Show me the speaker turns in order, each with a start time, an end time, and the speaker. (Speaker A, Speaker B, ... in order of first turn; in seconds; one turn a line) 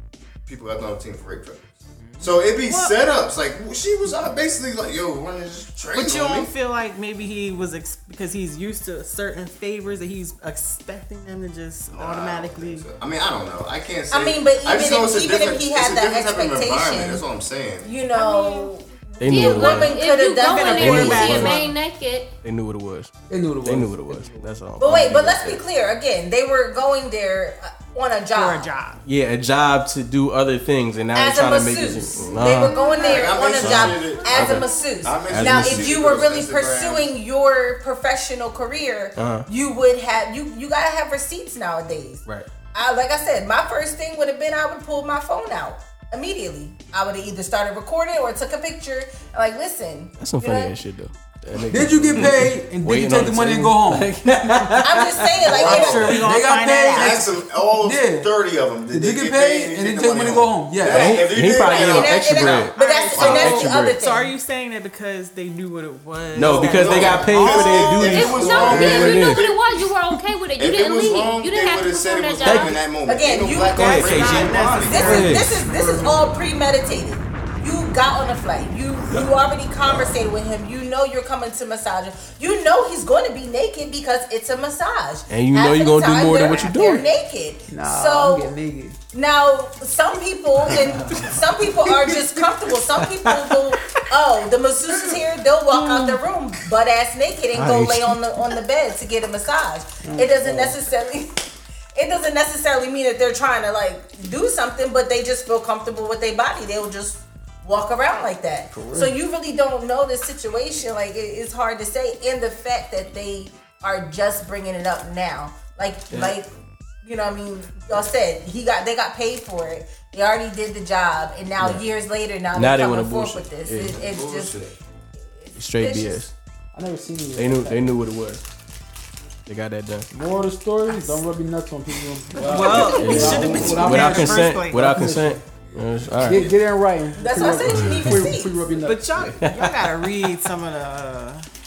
Speaker A: 0.5-6.5
Speaker B: 2.0-2.4
Speaker C: 2.7-2.9
Speaker C: 5.9-12.9
Speaker A: 11.9-17.9
Speaker D: 14.1-17.2
Speaker D: 17.8-21.5
Speaker E: 19.2-20.0
Speaker F: 19.2-22.3
Speaker C: 20.4-21.6
Speaker E: 20.7-21.7
Speaker E: 22.4-23.1
Speaker B: 23.3-24.4
Speaker E: 23.6-25.6
Speaker D: 24.8-28.7
Speaker C: 28.3-29.0
Speaker E: 29.1-32.8
Speaker D: 31.1-50.8
Speaker F: 32.6-33.1
Speaker A: 33.0-37.1
Speaker E: 33.5-34.6
Speaker E: 35.2-36.0
Speaker E: 39.2-39.5
Speaker E: 50.2-55.4
Speaker B: 51.7-54.8
Speaker D: 54.8-56.1
Speaker A: 55.4-56.2
Speaker C: 55.5-57.2
Speaker B: 56.1-58.3
Speaker A: 56.9-62.7
Speaker B: 58.9-61.1
Speaker E: 60.9-64.0
Speaker D: 61.7-64.3
Speaker C: 62.8-68.1
Speaker E: 66.3-69.5
Speaker A: 66.4-69.8
Speaker F: 68.0-72.8
Speaker B: 68.3-69.0
Speaker A: 70.6-75.5
Speaker E: 72.4-72.8
Speaker D: 73.1-88.5
Speaker C: 73.7-75.4
Speaker E: 73.8-75.8
Speaker E: 85.3-87.1
Speaker B: 87.7-89.0
Speaker D: 89.1-101.3
Speaker E: 90.7-92.4
Speaker E: 92.9-94.1
Speaker E: 95.7-96.2
Speaker E: 97.5-98.5
Speaker B: 100.0-100.8
Speaker D: 102.0-116.5
Speaker B: 108.7-109.1
Speaker E: 116.1-116.4
Speaker D: 117.0-124.6
Speaker E: 121.6-121.8
Speaker E: 122.5-124.0
Speaker A: 123.9-124.7
Speaker D: 125.4-126.2
Speaker E: 125.5-126.3
Speaker B: 126.7-127.9
Speaker E: 127.4-128.4
Speaker E: 129.5-130.1
Speaker B: 130.1-135.4
Speaker C: 130.9-131.2
Speaker C: 132.4-134.9
Speaker E: 132.7-136.5
Speaker A: 133.2-133.8
Speaker A: 135.6-136.6
Speaker B: 136.2-139.3
Speaker D: 137.2-138.6
Speaker E: 137.7-138.3
Speaker C: 138.8-141.4
Speaker E: 139.2-140.1